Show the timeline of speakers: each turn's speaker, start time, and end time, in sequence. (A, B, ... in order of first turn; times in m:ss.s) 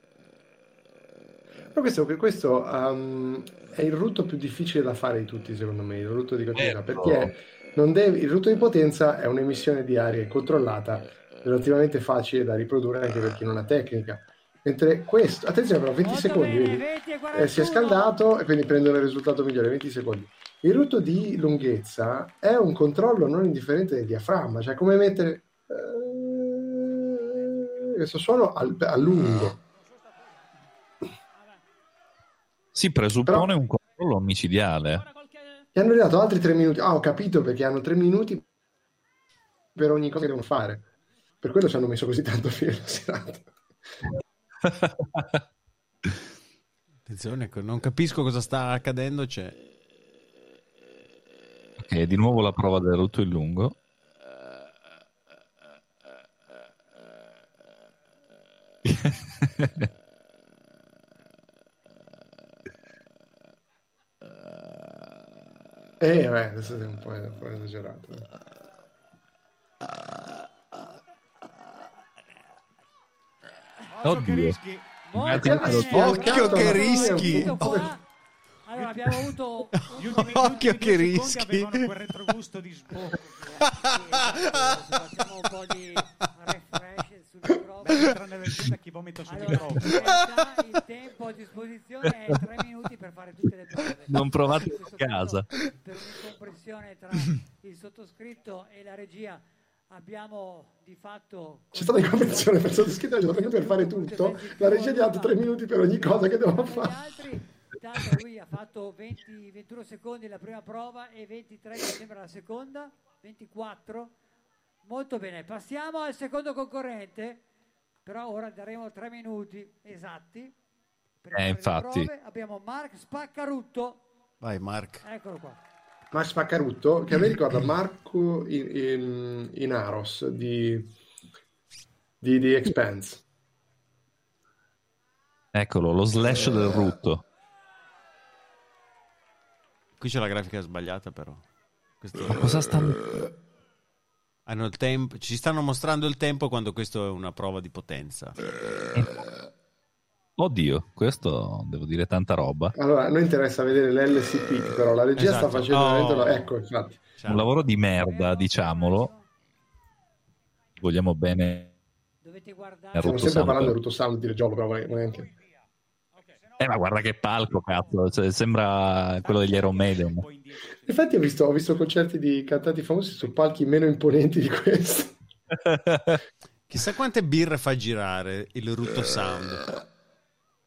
0:01.7-0:29.6 A
0:06.5-0:07.3 B
0:16.0-0:18.2 C
0:32.7-0:35.0 B
0:33.2-0:33.5 A
0:35.7-0:38.4 A
0:39.7-0:40.9 A
0:41.4-0:43.5 A
0:44.7-0:45.3 B
0:47.1-0:49.6 D
0:51.8-0:53.7 B
0:59.6-0:59.8 B
1:06.0-1:08.3 A
1:13.9-1:14.8 E
1:14.0-1:14.6 B
1:15.1-1:18.0 C
1:15.1-1:15.9 B
1:15.3-1:17.9 A
1:15.8-1:17.9 D
1:18.7-1:20.6 C
1:18.7-1:19.1 E
1:19.9-1:21.9 D
1:19.9-1:23.6 E
1:23.9-1:28.1 C
1:27.9-1:30.2 E
1:29.2-1:54.1 C
1:34.1-1:35.5 B
1:41.7-1:47.0 A
1:54.8-1:57.4 C
1:58.0-2:00.5 C
2:01.2-2:04.0 C
2:01.3-2:02.1 B
2:04.4-2:05.0 D
2:05.0-2:05.6 C
2:06.1-2:10.9 A
2:12.2-2:13.2 A
2:15.5-2:17.2 B
2:20.0-2:21.4 D
2:22.0-2:22.7 D
2:22.3-2:23.0 B
2:24.4-2:28.4 D
2:28.9-2:29.2 B
2:30.4-2:32.7 B
2:32.8-2:37.1 A
2:35.2-2:36.5 D
2:37.2-2:37.5 D
2:37.3-2:39.1 B
2:37.9-2:39.3 C
2:40.8-2:41.7 B
2:42.2-2:43.4 C
2:42.9-2:43.8 B
2:43.0-2:45.3 A
2:44.8-2:45.4 E
2:46.2-2:47.9 E
2:46.6-2:50.2 B
2:49.2-2:51.9 E
2:50.8-2:55.2 A
2:55.6-2:56.2 B
2:56.7-2:59.7 D